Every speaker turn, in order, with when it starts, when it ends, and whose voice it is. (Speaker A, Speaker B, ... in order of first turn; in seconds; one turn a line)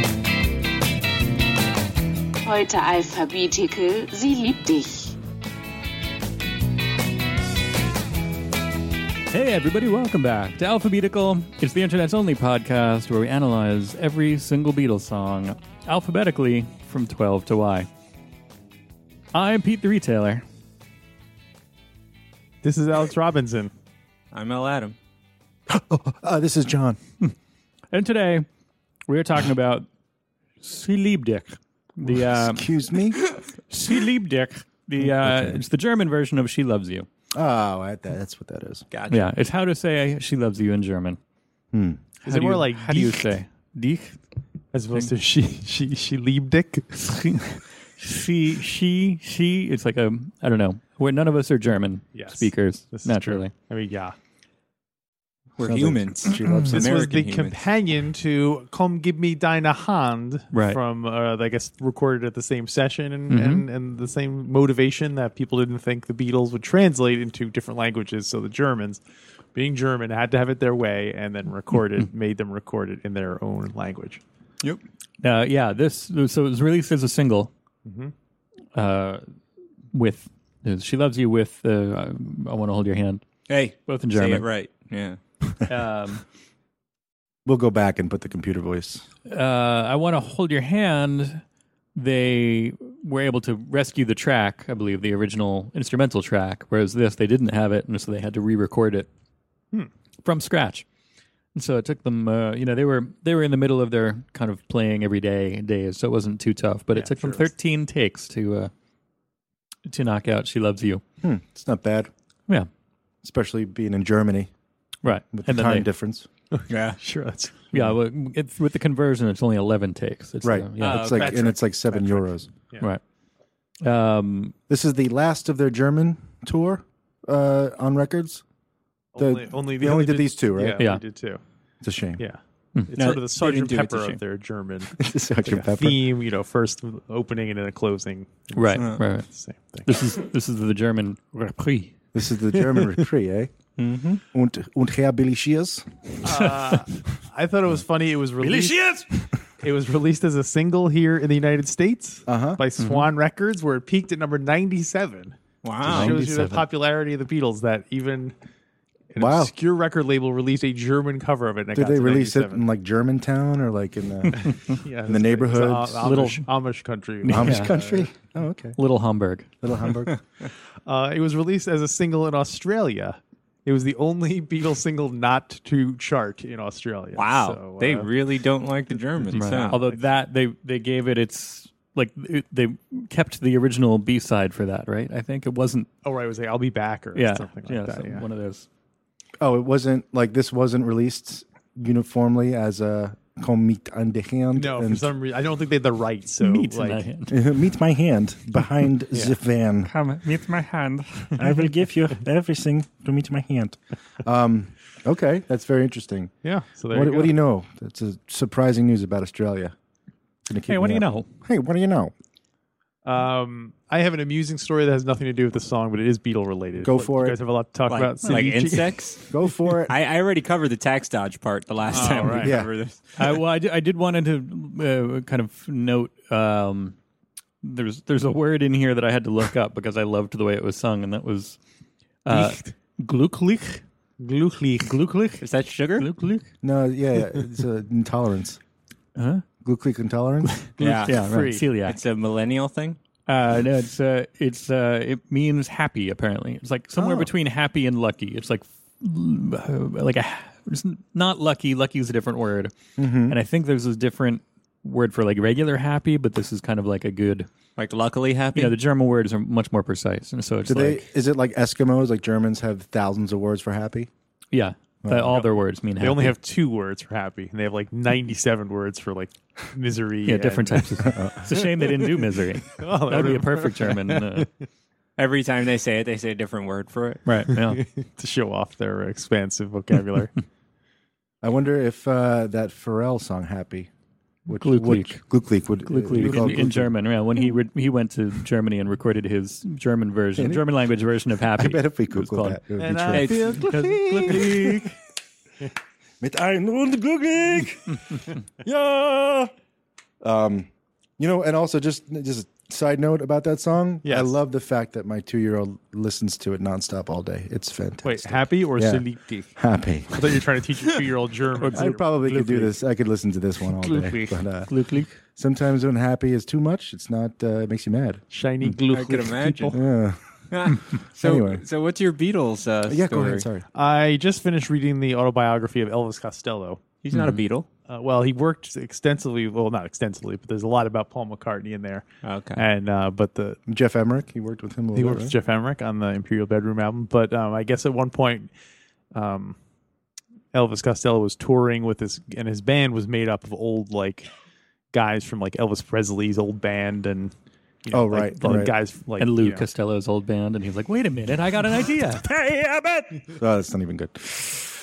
Speaker A: 2.5-4.8
Speaker B: 9.3-17.9
Speaker B: 19.3-20.4
Speaker C: 22.6-23.7
Speaker D: 24.3-25.0
Speaker E: 25.7-27.0
Speaker B: 27.9-28.5
Speaker B: 29.1-29.9
Speaker B: 30.6-32.7
Speaker E: 32.0-33.2
Speaker B: 33.7-37.1
Speaker E: 35.0-35.6
Speaker E: 37.4-38.9
Speaker D: 38.9-39.3
Speaker B: 39.1-41.2
Speaker E: 41.7-42.1
Speaker C: 42.2-43.4
Speaker B: 42.2-44.2
Speaker C: 44.7-47.0
Speaker B: 47.0-53.5
Speaker C: 52.1-54.2
Speaker D: 55.6-57.7
Speaker E: 55.6-56.9
Speaker C: 56.5-69.0
Speaker B: 60.5-60.8
Speaker B: 63.3-63.7
Speaker C: 69.5-74.2
Speaker B: 75.2-77.5
Speaker C: 77.8-78.1
Speaker B: 78.8-79.2
Speaker B: 79.9-83.2
Speaker D: 83.5-85.2
Speaker B: 83.9-84.5
Speaker B: 85.7-86.2
Speaker E: 87.5-89.0
Speaker B: 89.3-91.4
Speaker B: 92.0-99.1
Speaker B: 100.2-100.9
Speaker B: 101.5-108.7
Speaker C: 106.9-107.5
Speaker B: 109.9-111.0
Speaker E: 111.2-112.1
Speaker E: 113.2-114.5
Speaker B: 115.0-115.9
Speaker E: 115.2-116.3
Speaker C: 116.5-117.7
Speaker D: 116.7-117.0
Speaker B: 117.7-121.2
Speaker E: 120.4-122.5
Speaker D: 120.8-121.4
Speaker C: 121.0-122.9
Speaker B: 123.8-124.5
Speaker E: 124.7-128.4
Speaker C: 129.2-131.4
Speaker E: 129.2-130.9
Speaker B: 130.8-131.0
Speaker E: 131.8-132.2
Speaker C: 132.2-139.9
Speaker D: 133.0-134.2
Speaker E: 135.0-136.1
Speaker B: 138.5-139.3
Speaker B: 139.8-141.9
Speaker E: 142.1-145.8
Speaker D: 143.8-144.1
Speaker C: 146.2-148.9
Speaker B: 146.2-146.9
Speaker B: 148.4-149.1
Speaker C: 149.6-155.4
Speaker E: 152.3-152.6
Speaker B: 152.8-153.1
Speaker D: 155.6-156.2
Speaker E: 155.8-156.7
Speaker C: 155.9-158.3
Speaker C: 159.1-162.7
Speaker E: 159.2-159.5
Speaker E: 161.7-164.5
Speaker C: 164.3-168.1
Speaker E: 165.0-166.2
Speaker B: 166.0-166.5
Speaker B: 167.2-167.8
Speaker E: 167.2-168.8
Speaker B: 168.8-169.5
Speaker E: 169.6-170.2
Speaker C: 170.8-178.1
Speaker D: 177.2-179.8
Speaker B: 179.3-185.9
Speaker C: 179.7-180.0
Speaker C: 186.1-188.2
Speaker B: 187.1-188.7
Speaker E: 189.4-195.1
Speaker C: 194.5-197.1
Speaker B: 196.4-197.4
Speaker E: 197.3-199.9
Speaker B: 199.8-201.7
Speaker E: 201.4-206.3
Speaker C: 206.4-207.4
Speaker E: 206.9-209.7
Speaker E: 210.5-212.1
Speaker B: 210.7-211.3
Speaker C: 213.1-219.3
Speaker E: 216.8-217.4
Speaker D: 217.9-219.2
Speaker E: 219.3-220.0
Speaker D: 219.9-223.4
Speaker C: 221.9-222.5
Speaker E: 222.4-222.8
Speaker B: 223.2-227.0
Speaker B: 227.6-231.6
Speaker B: 232.2-233.8
Speaker C: 232.3-232.6
Speaker C: 234.2-235.0
Speaker B: 234.9-236.5
Speaker D: 235.4-236.1
Speaker E: 236.6-238.6
Speaker B: 239.2-239.4
Speaker E: 239.6-240.6
Speaker B: 240.5-242.0
Speaker D: 240.8-241.3
Speaker C: 240.8-241.7
Speaker D: 241.8-243.0
Speaker B: 243.3-257.5
Speaker E: 246.9-247.3
Speaker E: 253.0-253.4
Speaker D: 257.8-258.8
Speaker B: 258.5-261.1
Speaker E: 260.7-264.1
Speaker B: 264.5-266.4
Speaker E: 265.0-265.4
Speaker C: 265.3-270.9
Speaker B: 270.2-274.5
Speaker E: 271.0-271.5
Speaker C: 272.8-274.5
Speaker D: 275.2-277.3
Speaker B: 277.2-277.8
Speaker C: 277.5-280.3
Speaker E: 281.4-283.9
Speaker E: 284.5-286.9
Speaker B: 284.6-285.2
Speaker B: 285.8-294.9
Speaker C: 286.1-286.6
Speaker E: 290.4-290.7
Speaker E: 291.5-294.9
Speaker C: 292.8-294.5
Speaker D: 293.1-293.6
Speaker E: 296.2-299.5
Speaker E: 300.2-309.1
Speaker C: 304.0-304.4
Speaker C: 308.0-309.5
Speaker E: 309.6-310.4
Speaker C: 310.1-312.8
Speaker B: 311.6-311.9
Speaker E: 311.7-318.8
Speaker C: 313.7-314.4
Speaker B: 314.6-315.2
Speaker C: 318.3-319.8
Speaker D: 318.9-319.8
Speaker E: 319.7-320.2
Speaker D: 320.5-323.5
Speaker E: 321.2-321.6
Speaker E: 322.9-323.6
Speaker C: 323.7-326.8
Speaker D: 327.0-327.7
Speaker B: 327.1-327.4
Speaker C: 327.9-333.6
Speaker D: 332.2-332.6
Speaker E: 333.7-335.4
Speaker C: 334.9-338.5
Speaker C: 339.1-339.6
Speaker C: 340.5-344.3
Speaker C: 344.9-347.3
Speaker C: 347.8-349.7
Speaker E: 347.9-348.8
Speaker B: 348.4-352.3
Speaker C: 352.4-353.0
Speaker E: 353.3-354.5